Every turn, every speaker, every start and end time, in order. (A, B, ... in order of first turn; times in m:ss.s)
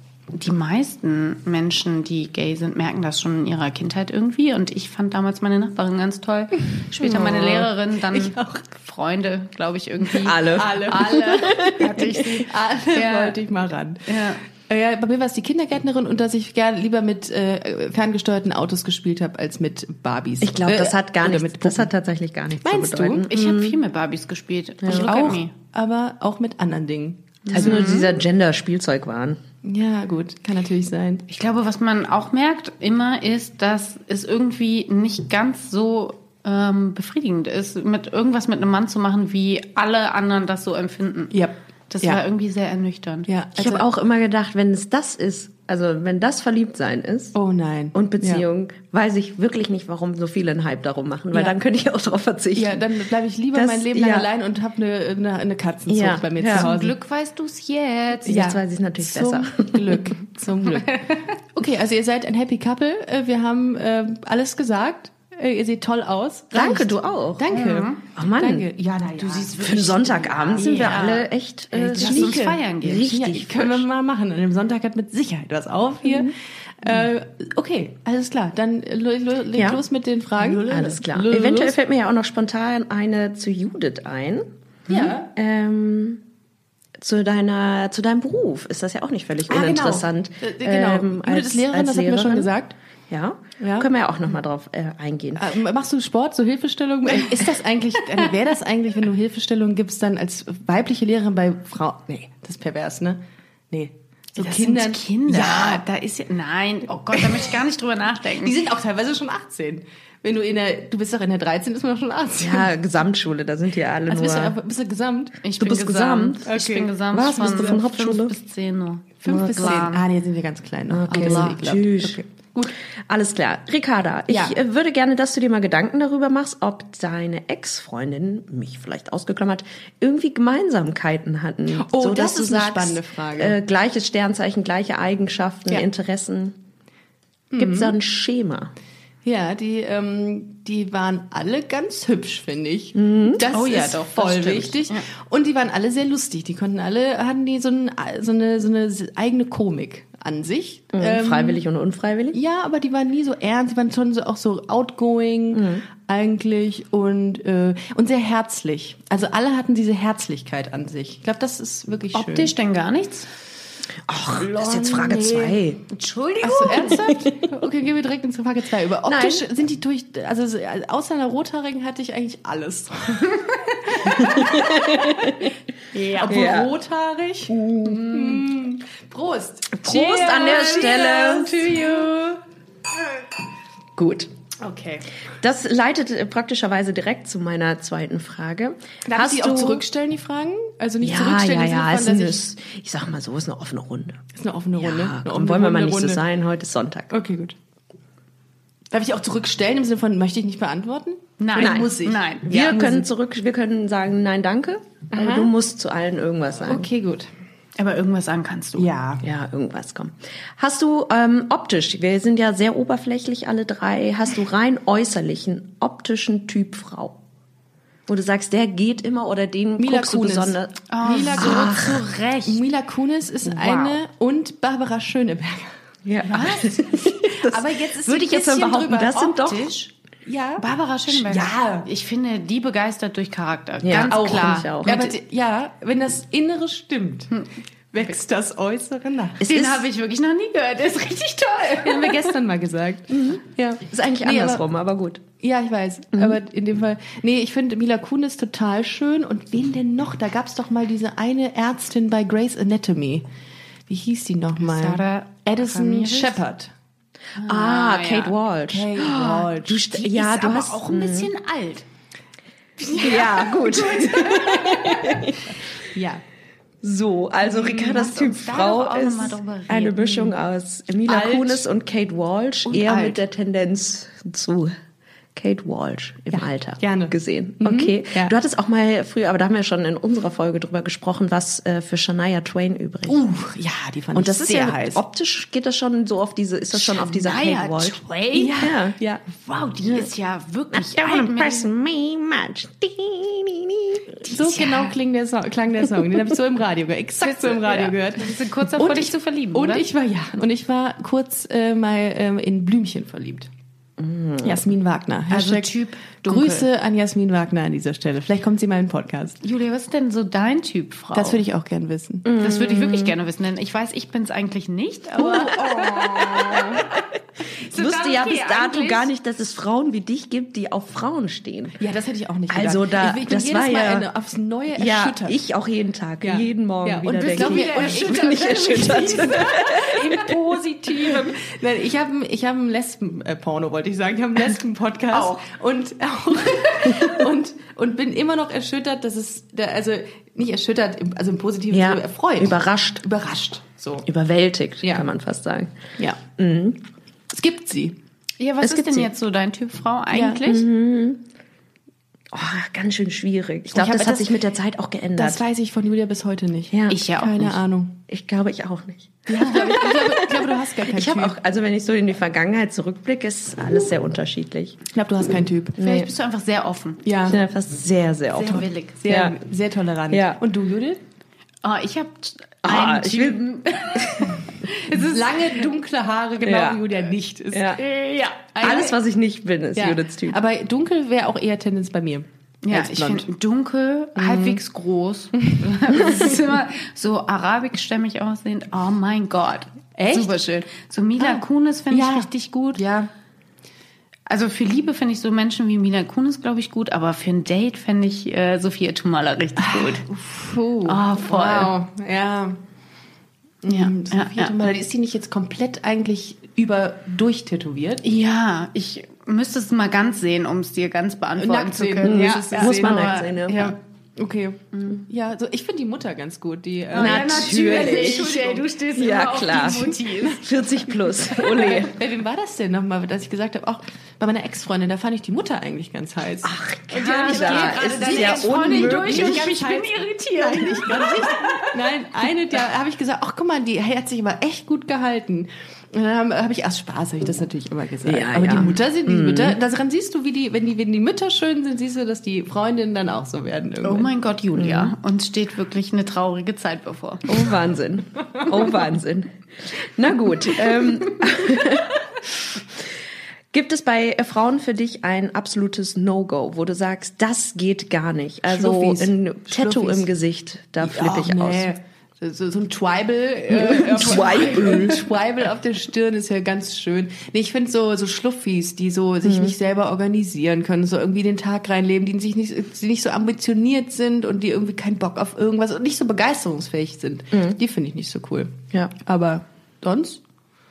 0:00.3-0:13.4 A
0:07.0-0:07.7 B
0:08.4-0:08.6 C
0:10.2-0:12.1 B
0:10.5-0:11.8 C
0:12.4-0:14.0 C
0:14.1-0:14.4 A
0:14.6-0:21.9 C
0:20.4-0:23.8 B
0:22.6-0:23.3 C
0:23.3-0:25.5 A
0:24.8-0:25.1 B
0:24.9-0:28.0 C
0:27.5-0:28.1 A
0:27.6-0:29.4 B
0:29.6-0:31.2 C
0:31.3-0:41.4 A
0:41.3-0:42.2 C
0:41.9-0:43.6 A
0:43.3-0:43.8 C
0:43.6-0:47.4 B
0:47.3-0:48.4 C
0:47.9-0:52.9 B
0:52.6-0:56.9 C
0:53.5-0:54.3 B
0:55.9-0:56.7 B
0:56.5-0:58.5 A
0:58.3-1:00.1 B
0:58.3-1:11.0 C
1:06.5-1:07.5 B
1:07.5-1:08.0 A
1:08.2-1:08.7 B
1:09.2-1:11.3 A
1:09.3-1:13.9 B
1:11.7-1:21.8 C
1:11.9-1:13.1 A
1:16.1-1:16.3 B
1:19.6-1:19.8 B
1:20.4-1:26.2 B
1:24.9-1:25.3 C
1:27.0-1:32.5 B
1:29.5-1:32.8 C
1:33.1-1:35.5 B
1:33.6-1:33.9 C
1:35.4-1:45.8 C
1:44.4-1:48.6 A
1:48.4-1:52.7 C
1:52.4-1:54.6 B
1:54.1-1:55.4 C
1:55.4-2:00.1 A
1:55.6-1:56.4 B
1:56.5-1:56.9 C
1:57.1-1:58.3 B
1:57.4-1:57.7 C
1:59.2-2:02.7 C
2:00.9-2:02.2 B
2:03.1-2:16.6 B
2:04.3-2:04.6 C
2:11.7-2:13.6 C
2:17.5-2:18.0 C
2:17.6-2:18.7 B
2:19.2-2:31.6 C
2:23.0-2:23.4 B
2:23.5-2:25.1 A
2:30.9-2:32.4 B
2:32.3-2:42.5 C
2:35.5-2:35.8 B
2:42.1-2:43.3 A
2:44.1-2:45.8 B
2:44.4-2:45.6 C
2:45.9-2:47.1 A
2:46.4-2:55.4 C
2:49.0-2:49.4 B
2:54.1-2:55.5 B
2:55.9-2:56.5 A
2:56.2-2:56.7 B
2:56.2-3:01.2 C
2:57.5-2:58.4 B
2:59.7-3:01.8 B
2:59.9-3:02.4 A
3:04.0-3:04.3 B
3:04.6-3:05.0 A
3:05.4-3:09.9 B
3:09.0-3:12.4 C
3:11.0-3:14.2 B
3:14.4-3:16.2 C
3:14.8-3:17.2 B
3:17.1-3:17.6 C
3:18.9-3:23.1 C
3:21.4-3:22.8 A
3:21.6-3:21.9 B
3:22.5-3:26.9 B
3:25.1-3:25.5 C
3:26.7-3:27.3 C
3:27.8-3:28.9 A
3:28.8-3:29.2 C
3:29.2-3:37.2 B
3:38.1-3:40.8 B
3:39.8-3:41.8 C
3:40.9-3:42.6 A
3:41.4-3:42.0 B
3:42.5-3:45.8 C
3:43.5-3:44.0 A
3:46.0-3:49.7 B
3:46.3-3:46.8 A
3:47.2-3:49.2 C
3:48.7-3:49.9 A
3:50.3-3:51.9 C
3:50.6-3:55.2 A
3:53.8-3:55.0 B
3:54.1-3:57.3 C
3:57.9-3:59.4 C
3:59.4-3:59.9 B
3:59.4-4:02.4 A
4:01.7-4:04.6 C
4:03.1-4:05.2 B
4:05.4-4:13.2 C
4:13.9-4:16.7 C
4:14.6-4:16.4 A
4:17.4-4:18.4 A
4:17.4-4:21.3 B
4:18.7-4:19.9 C
4:19.7-4:21.9 A
4:22.8-4:26.2 C
4:22.9-4:25.4 B
4:23.6-4:24.2 A
4:26.8-4:34.8 B
4:27.4-4:30.3 A
4:31.1-4:31.6 C
4:32.7-4:33.2 A
4:35.4-4:43.2 B
4:36.3-4:38.4 C
4:43.1-4:45.0 C
4:44.1-4:48.0 B
4:46.7-4:48.6 A
4:48.3-4:49.2 C
4:48.6-4:49.0 B
4:49.3-4:51.7 A
4:49.8-4:50.1 B
4:50.7-4:54.1 B
4:54.2-5:03.5 C
4:54.2-4:55.0 A
4:57.2-4:59.8 A
5:04.0-5:04.6 B
5:04.4-5:05.7 C
5:05.3-5:06.7 A
5:06.2-5:09.4 C
5:09.4-5:11.4 A
5:11.1-5:12.3 C
5:12.2-5:13.1 B
5:12.4-5:17.0 A
5:15.2-5:16.9 B
5:15.2-5:16.8 C
5:17.7-5:19.1 A
5:17.7-5:21.8 B
5:21.8-5:25.4 C
5:22.5-5:24.1 B
5:24.8-5:30.1 B
5:26.2-5:44.1 C
5:27.3-5:29.7 A
5:41.7-5:43.0 B
5:44.0-5:45.7 B
5:44.8-5:45.1 C
5:46.3-5:46.8 B
5:47.3-5:48.0 C
5:48.4-5:50.7 A
5:48.6-5:49.1 B
5:50.1-5:50.4 C
5:50.4-5:51.2 B
5:52.3-5:55.4 B
5:53.7-5:54.5 C
5:55.2-5:58.0 C
5:56.7-5:57.0 B
5:56.9-5:57.5 A
5:58.1-6:04.8 B
5:59.3-6:01.4 C
6:04.9-6:05.8 C
6:05.8-6:06.1 B
6:05.8-6:07.0 A
6:07.0-6:07.4 C
6:07.2-6:09.4 B
6:08.4-6:09.0 A
6:08.4-6:11.0 C
6:10.1-6:10.4 B
6:11.6-6:15.7 A
6:12.6-6:14.2 B
6:14.9-6:17.8 C
6:16.4-6:16.8 B
6:17.5-6:17.8 B
6:17.8-6:19.0 A
6:18.6-6:20.4 B
6:19.8-6:23.2 C
6:22.6-6:32.8 A
6:24.2-6:24.6 C
6:30.0-6:30.3 C
6:31.2-6:33.1 C
6:34.3-6:40.0 A
6:39.6-6:42.6 C
6:40.9-6:41.7 A
6:43.6-6:48.0 C
6:43.7-6:44.7 A
6:48.0-6:53.4 A
6:51.4-6:58.6 C
6:52.0-6:53.8 B
6:56.9-7:00.6 A
6:56.9-6:58.3 B
6:59.0-7:01.9 B
7:01.2-7:24.1 C
7:06.4-7:09.5 B
7:06.9-7:11.7 A
7:18.1-7:19.6 B
7:23.8-7:27.4 A
7:24.6-7:25.0 B
7:27.3-7:29.3 B
7:30.0-7:32.0 B
7:33.5-7:41.7 B
7:38.5-7:40.1 C
7:40.8-8:00.2 C
7:43.6-7:45.0 B
7:49.2-7:49.5 B
7:57.3-7:57.6 B